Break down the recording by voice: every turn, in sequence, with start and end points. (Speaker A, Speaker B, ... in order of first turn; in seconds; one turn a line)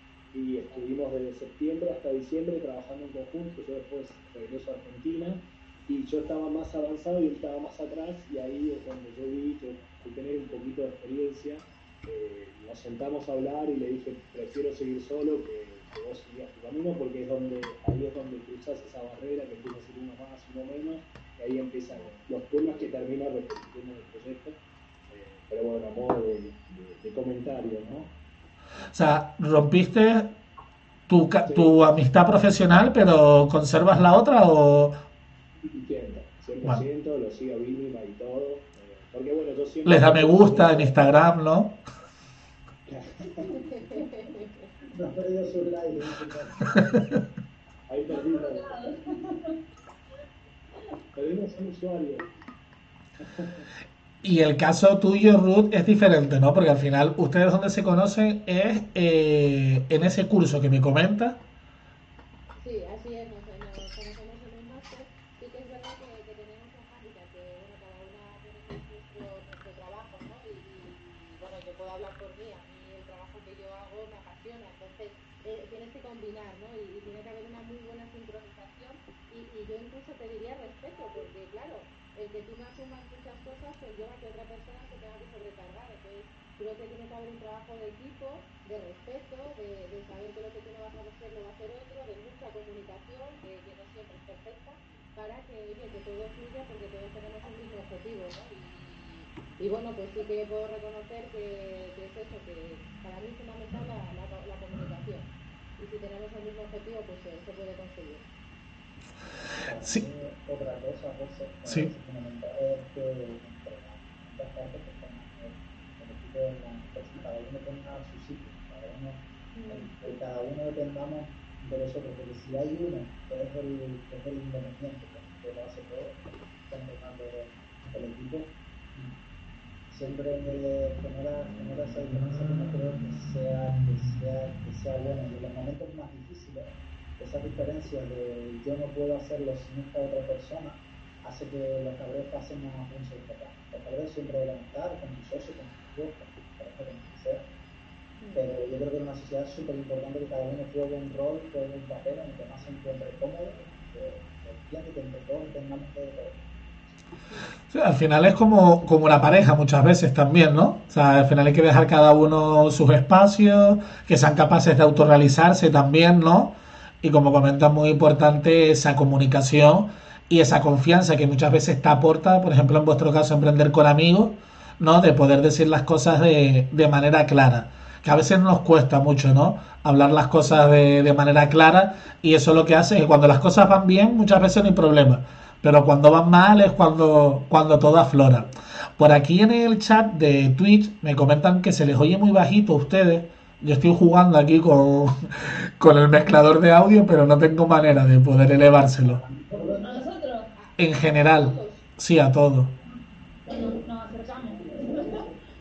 Speaker A: 0.3-28.1
Speaker B: 28.9-30.3
Speaker B: 31.1-35.0
Speaker A: 31.5-31.8
Speaker A: 35.6-41.3
Speaker B: 39.9-41.8
Speaker A: 42.9-43.5
Speaker C: 43.5-44.7
Speaker D: 44.9-46.8
Speaker B: 46.8-47.0
Speaker A: 47.9-48.8
Speaker E: 48.1-49.6
Speaker A: 51.1-52.3
Speaker A: 53.2-53.6
Speaker B: 54.2-61.4
Speaker C: 62.6-108.2
Speaker D: 109.6-129.1
Speaker C: 119.5-119.9
Speaker D: 129.9-147.5
Speaker C: 148.2-148.5
Speaker D: 148.3-156.4
Speaker B: 157.7-199.2
Speaker D: 199.0-200.1
Speaker E: 199.8-200.5
Speaker C: 200.6-201.9
Speaker B: 200.8-202.7
Speaker E: 203.5-205.3